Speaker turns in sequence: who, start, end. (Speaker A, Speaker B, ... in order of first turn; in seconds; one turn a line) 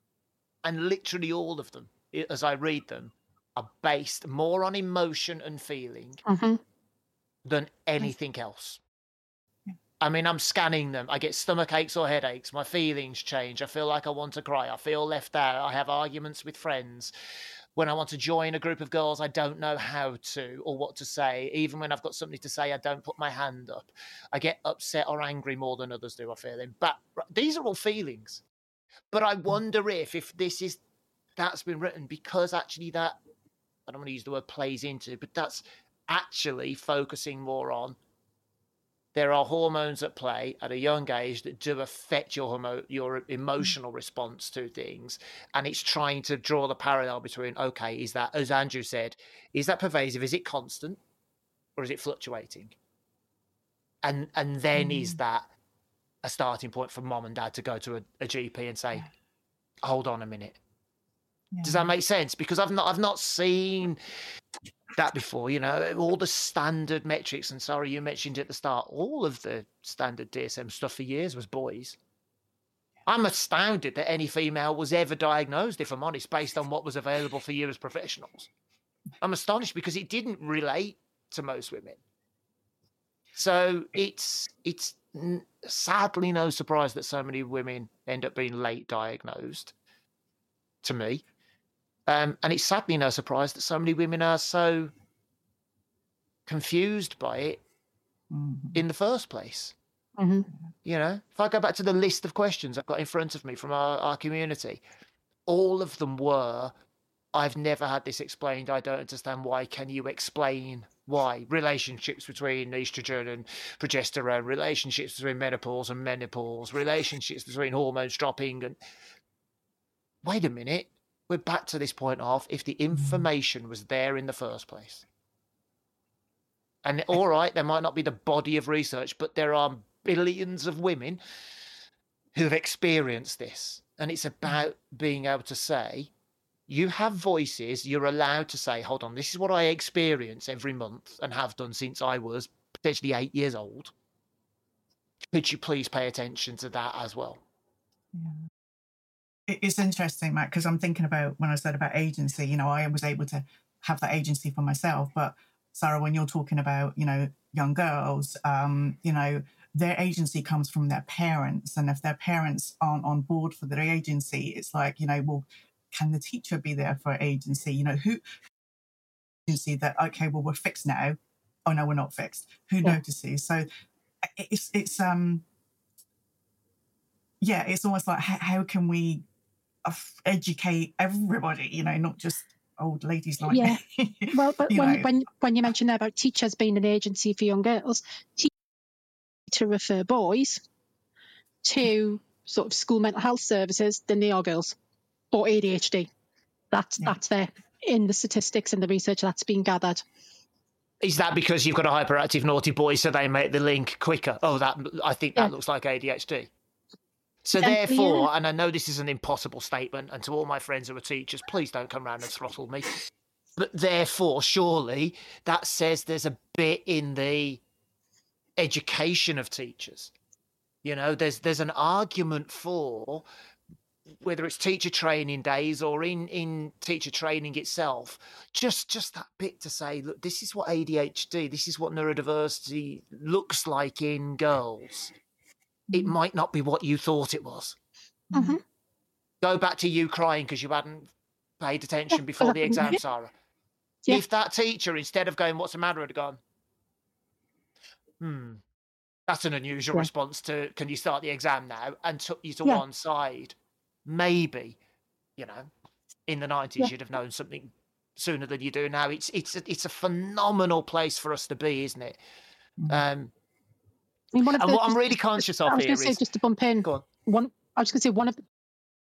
Speaker A: 0.6-6.2
Speaker B: 6.3-6.6
Speaker A: 7.5-8.8
Speaker A: 10.0-17.1
Speaker A: 17.8-28.4
Speaker A: 29.1-30.8
Speaker A: 31.4-33.2
Speaker A: 33.9-38.0
Speaker A: 39.1-51.0
Speaker A: 51.8-52.8
Speaker A: 54.0-55.5
Speaker C: 54.8-55.2
Speaker A: 56.2-59.1
Speaker A: 59.8-60.6
Speaker C: 61.5-61.9
Speaker A: 61.6-64.0
Speaker A: 65.0-72.0
Speaker A: 73.1-78.5
Speaker A: 79.2-82.0
Speaker A: 83.4-89.7
Speaker A: 90.8-91.2
Speaker A: 92.1-94.9
Speaker A: 96.5-97.6
Speaker C: 98.3-98.8
Speaker A: 98.7-99.8
Speaker B: 100.2-100.5
Speaker A: 100.8-104.8
Speaker A: 105.5-106.7
Speaker A: 107.3-118.8
Speaker A: 120.2-125.0
Speaker A: 126.8-131.2
Speaker A: 132.3-136.1
Speaker A: 136.7-143.9
Speaker A: 145.3-147.4
Speaker C: 149.5-168.2
Speaker C: 169.5-173.7
Speaker C: 174.2-175.4
Speaker C: 177.4-179.2
Speaker C: 179.8-185.1
Speaker B: 183.5-183.8
Speaker B: 184.3-188.5
Speaker B: 189.5-190.6
Speaker B: 191.6-194.8
Speaker B: 195.3-196.1
Speaker B: 196.7-200.0
Speaker A: 201.0-206.5
Speaker A: 207.4-213.0
Speaker B: 207.6-208.3
Speaker A: 213.6-217.6
Speaker A: 218.6-220.1
Speaker A: 220.8-223.3
Speaker A: 224.2-235.1
Speaker A: 235.9-237.8
Speaker C: 238.3-238.6
Speaker B: 238.3-238.6
Speaker A: 239.4-243.3
Speaker B: 242.4-243.0
Speaker A: 244.1-246.4
Speaker A: 248.2-248.6
Speaker A: 249.3-254.8
Speaker A: 255.4-255.7
Speaker A: 256.3-262.2
Speaker A: 262.9-263.3
Speaker B: 264.3-268.4
Speaker A: 264.5-266.2